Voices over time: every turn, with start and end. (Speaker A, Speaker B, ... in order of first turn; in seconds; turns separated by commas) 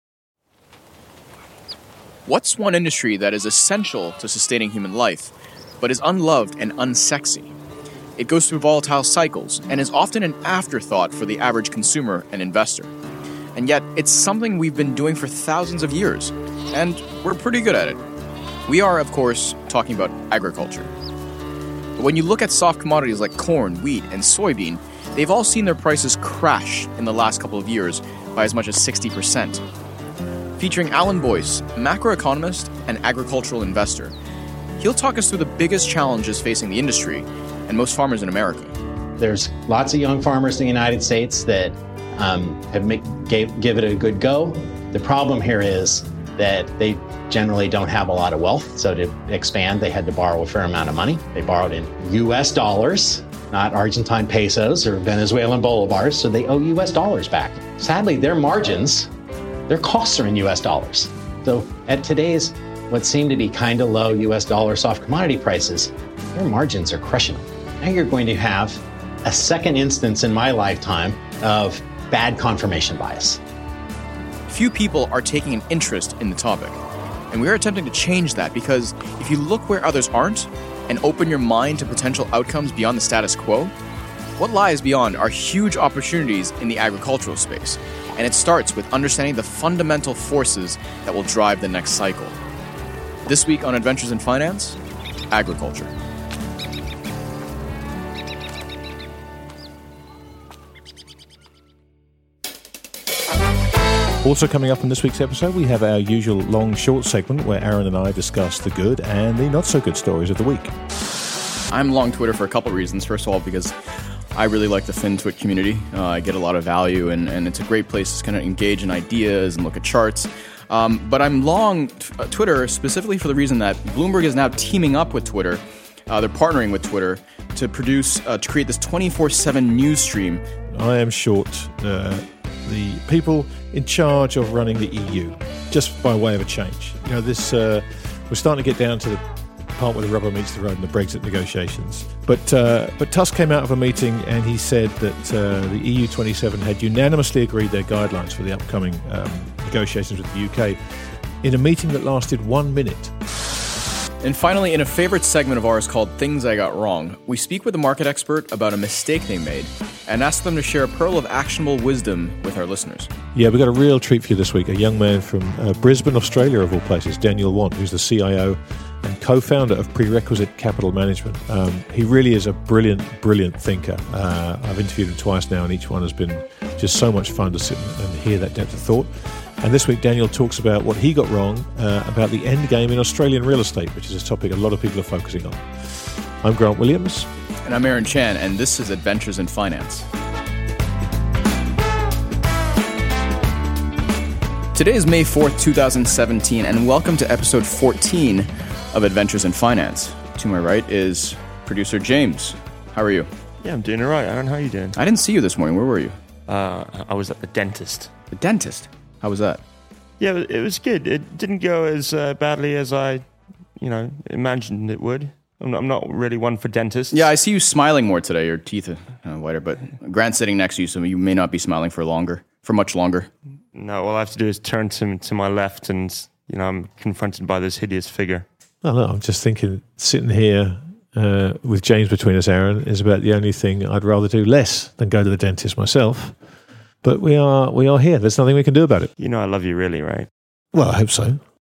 Speaker A: 2.2-7.5, Speaker A: 8.2-12.9, Speaker A: 13.5-18.0, Speaker A: 18.7-20.9, Speaker A: 22.0-29.6, Speaker A: 30.6-34.1, Speaker A: 34.8-38.7, Speaker B: 39.2-59.1, Speaker B: 59.7-73.4, Speaker A: 74.5-76.8, Speaker A: 77.3-83.7, Speaker A: 84.4-92.4, Speaker A: 93.2-94.8, Speaker A: 95.3-95.9, Speaker C: 104.2-110.7, Speaker A: 111.7-113.7, Speaker A: 114.3-130.4, Speaker C: 130.7-139.2, Speaker C: 139.8-150.8, Speaker C: 151.4-153.1, Speaker A: 154.2-163.1, Speaker C: 163.3-187.3, Speaker A: 187.6-190.1, Speaker A: 194.7-203.3, Speaker D: 203.6-205.0, Speaker A: 204.9-206.2, Speaker D: 206.5-208.1, Speaker A: 208.3-209.6, Speaker D: 210.2-217.3, Speaker A: 217.1-223.3, Speaker D: 223.7-228.4, Speaker C: 228.8-236.4, Speaker C: 237.0-239.1, Speaker D: 239.2-240.3, Speaker C: 240.7-241.4